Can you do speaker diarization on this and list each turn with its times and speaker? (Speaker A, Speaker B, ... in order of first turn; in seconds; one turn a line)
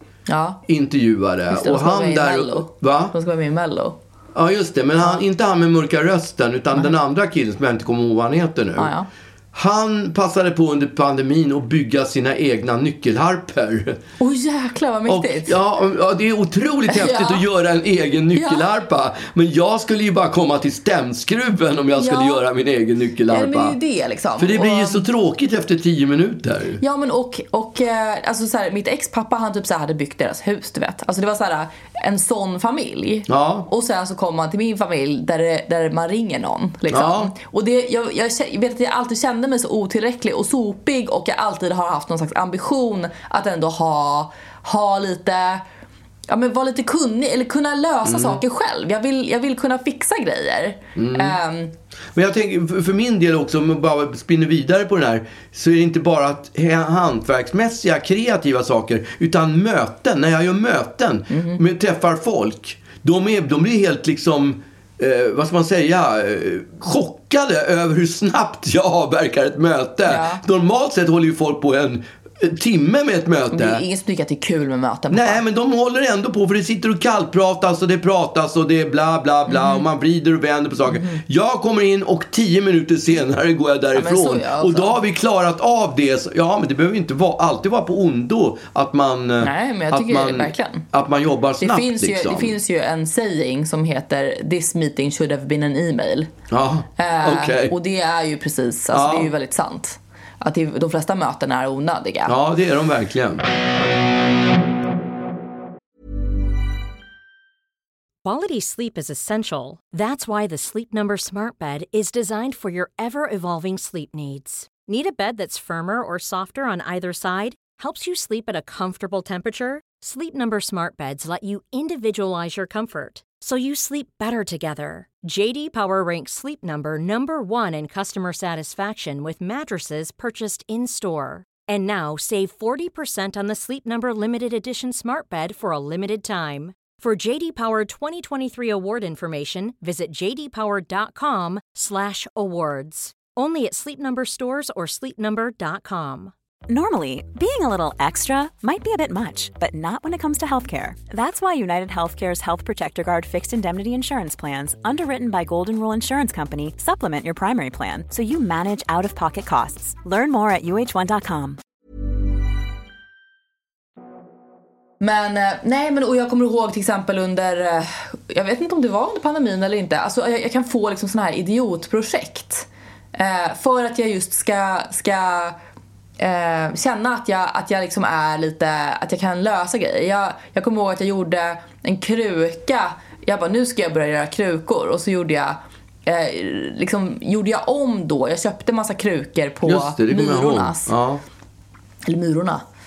Speaker A: 0.3-0.6
Speaker B: 0.7-3.1
Speaker A: 1.5-4.0
Speaker B: 4.3-8.9
Speaker A: 8.8-9.1
Speaker B: 9.5-14.0
Speaker A: 14.2-15.5
Speaker B: 15.1-23.8
Speaker A: 16.9-17.4
Speaker A: 18.3-18.6
Speaker A: 22.0-22.4
Speaker A: 23.3-25.1
Speaker B: 24.4-26.8
Speaker A: 26.8-45.6
Speaker B: 33.3-33.7
Speaker B: 36.9-37.3
Speaker A: 46.3-51.7
Speaker B: 48.0-48.4
Speaker B: 51.0-51.4
Speaker B: 52.1-73.8
Speaker A: 61.3-61.6
Speaker A: 70.0-70.4
Speaker A: 73.5-75.4
Speaker B: 75.1-92.5
Speaker A: 79.5-79.8
Speaker A: 80.9-81.2
Speaker A: 83.9-85.0
Speaker A: 89.4-90.9
Speaker A: 91.6-96.3
Speaker B: 96.5-97.8
Speaker A: 97.0-102.3
Speaker B: 98.9-99.3
Speaker B: 102.2-103.4
Speaker C: 108.2-146.3
Speaker D: 146.7-161.6
Speaker A: 165.0-175.6
Speaker A: 176.2-190.9
Speaker B: 189.6-191.2
Speaker A: 192.0-192.6